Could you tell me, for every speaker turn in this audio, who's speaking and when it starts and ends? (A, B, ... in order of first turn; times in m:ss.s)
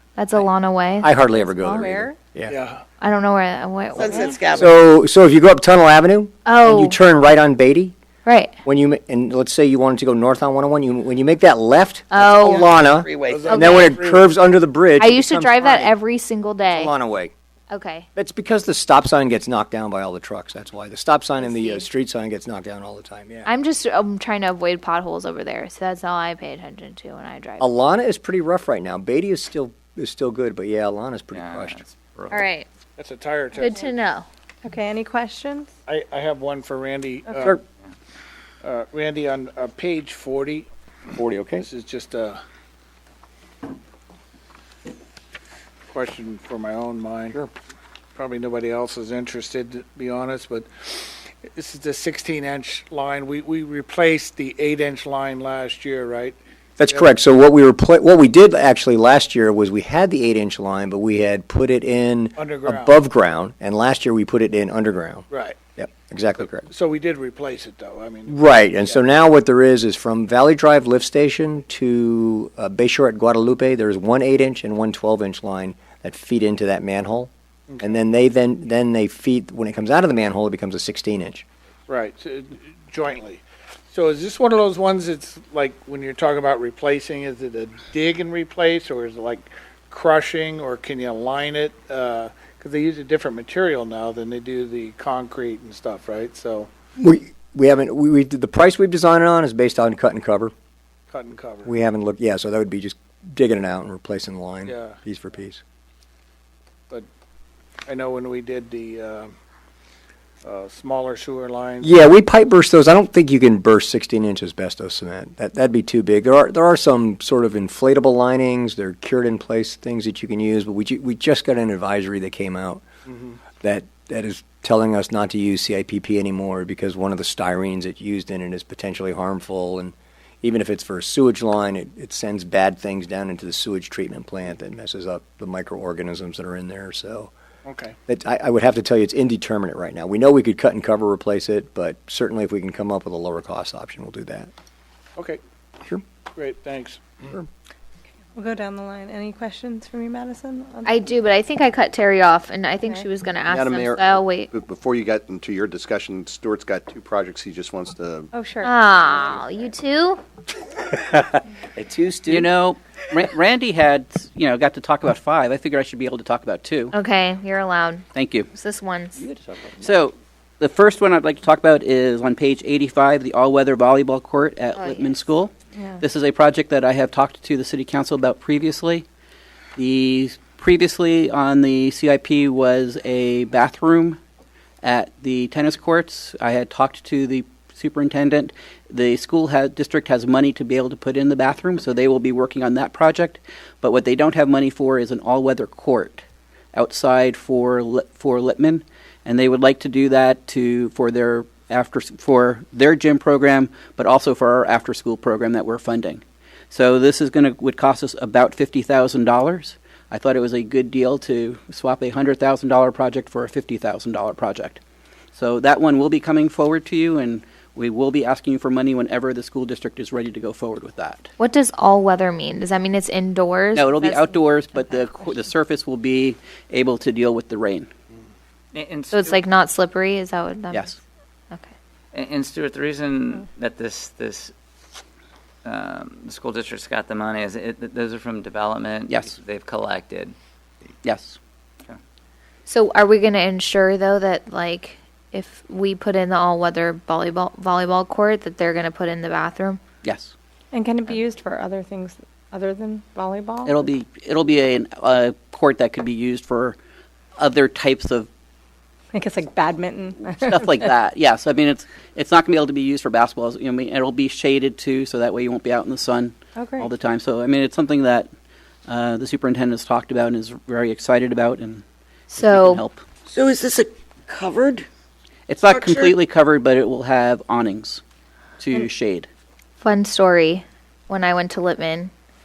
0:00.2-0:02.0 A
0:01.0-0:02.5 B
0:01.8-0:02.2 C
0:02.5-0:02.8 D
0:03.0-0:04.5 A
0:04.0-0:04.4 C
0:04.0-0:04.5 E
0:04.5-0:07.9 B
0:06.4-0:07.0 A
0:08.2-0:08.5 A
0:08.6-0:15.9 B
0:12.1-0:12.6 A
0:13.0-0:13.4 E
0:13.2-0:14.3 D
0:13.4-0:13.9 A
0:15.0-0:16.9 A
0:16.7-0:17.3 B
0:17.7-0:18.1 A
0:18.1-0:23.5 B
0:21.4-0:21.8 A
0:23.4-0:27.7 A
0:27.6-0:31.9 B
0:31.3-0:32.4 F
0:32.3-0:32.7 A
0:33.0-0:33.9 D
0:33.6-0:34.3 A
0:34.6-0:35.7 C
0:35.9-0:37.6 D
0:38.6-0:40.7 D
0:41.1-0:41.6 B
0:41.6-0:42.4 D
0:45.9-0:47.4 D
0:48.1-0:56.4 D
0:56.8-1:05.2 B
1:02.4-1:03.0 D
1:05.3-1:05.6 D
1:05.8-1:06.6 B
1:06.6-1:09.0 D
1:08.3-1:17.3 B
1:17.7-1:18.0 D
1:17.8-1:21.4 B
1:21.9-1:36.7 D
1:37.0-1:40.5 B
1:41.1-1:41.7 D
1:41.6-1:45.6 B
1:44.6-1:45.0 D
1:47.8-1:49.3 D
1:50.4-1:52.0 D
1:51.8-2:02.9 B
2:03.5-2:17.3 B
2:17.6-2:18.0 D
2:18.1-2:24.5 B
2:26.3-2:27.2 D
2:28.4-2:30.9 C
2:30.8-2:34.5 A
2:33.5-2:38.3 G
2:38.3-2:38.7 C
2:38.6-2:40.2 A
2:40.9-2:42.5 B
2:42.3-2:46.9 H
2:46.9-2:49.2 A
2:48.1-2:48.5 H
2:49.8-2:59.0 H
2:54.8-2:55.1 A
2:59.8-3:04.2 H
3:04.8-3:34.8 H
3:35.3-3:41.3 H
3:41.4-3:45.1 A
3:43.7-3:47.9 H
3:48.7-3:49.4 F
3:49.1-3:51.0 A
3:50.7-3:51.0 H
3:52.1-3:54.5 F
3:55.6-4:00.4 F
3:59.1-3:59.4 H
4:01.0-4:01.4 H
4:02.7-4:09.8 A
4:10.0-4:10.3 H
4:10.7-4:13.6 C
4:13.6-4:16.8 H
4:17.4-4:18.3 H
4:19.1-4:20.4 C
4:20.3-4:28.3 H
4:26.6-4:26.9 C
4:28.9-4:31.8 H
4:32.3-4:32.8 A
4:32.3-4:33.0 H
4:33.3-4:34.8 E
4:35.5-4:38.0 H
4:35.7-4:36.0 E
4:38.6-4:39.3 H
4:39.8-4:42.1 A